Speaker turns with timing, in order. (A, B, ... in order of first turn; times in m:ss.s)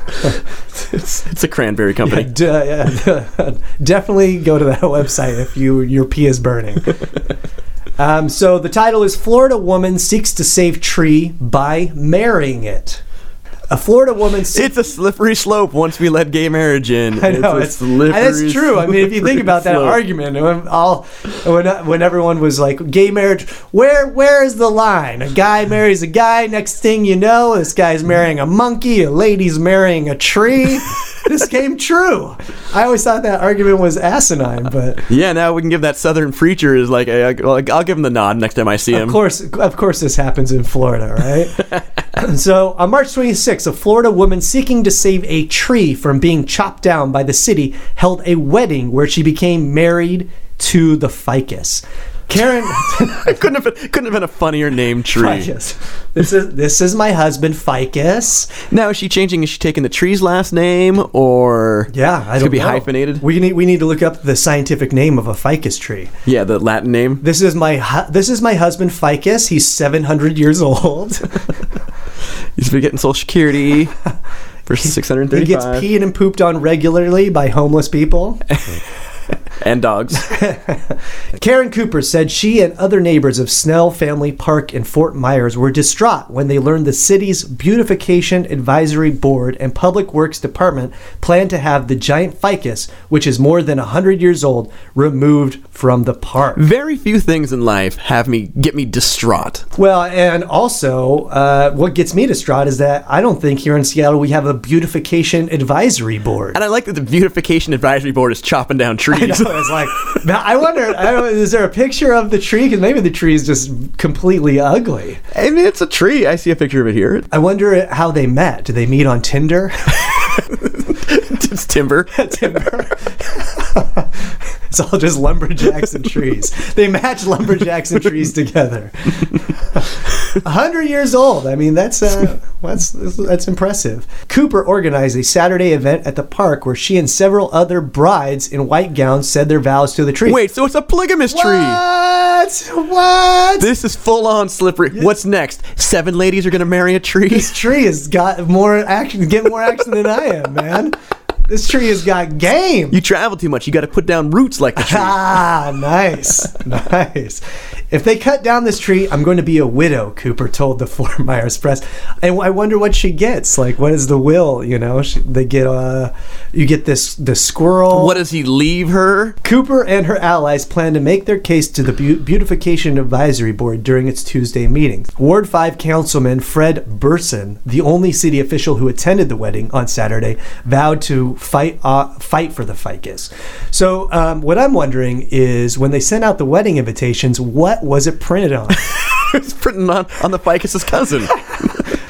0:00.3-0:02.3 A
0:02.0-0:07.0 B
0:08.0-0:13.0 B
0:13.7-0:14.7 B
0:14.5-0:20.0 A
0:17.2-0:35.0 B
0:35.1-0:39.2 A
0:38.9-0:53.4 B
0:53.0-0:55.5 A
0:55.1-0:58.5 B
0:58.6-1:03.2 A
1:01.9-1:06.1 B
1:06.2-1:07.2 A
1:07.2-1:11.4 B
1:12.6-1:13.9 A
1:14.6-1:15.9 A
1:15.3-1:18.4 B
1:19.6-1:20.4 A
1:20.2-1:36.6 B
1:36.6-1:39.6 A
1:39.8-1:46.6 B
1:46.5-1:50.2 A
1:49.1-1:55.2 B
1:55.3-1:57.3 A
1:57.3-2:00.1 B
2:00.0-2:02.2 A
2:02.1-2:20.4 B
2:20.2-2:21.8 A
2:21.3-2:23.7 B
2:23.6-2:27.6 A
2:27.3-2:31.0 B
2:31.5-2:33.0 B
2:32.9-2:35.4 A
2:34.8-2:48.2 B
2:47.9-2:49.4 A
2:49.4-3:08.8 B
3:08.8-3:11.8 A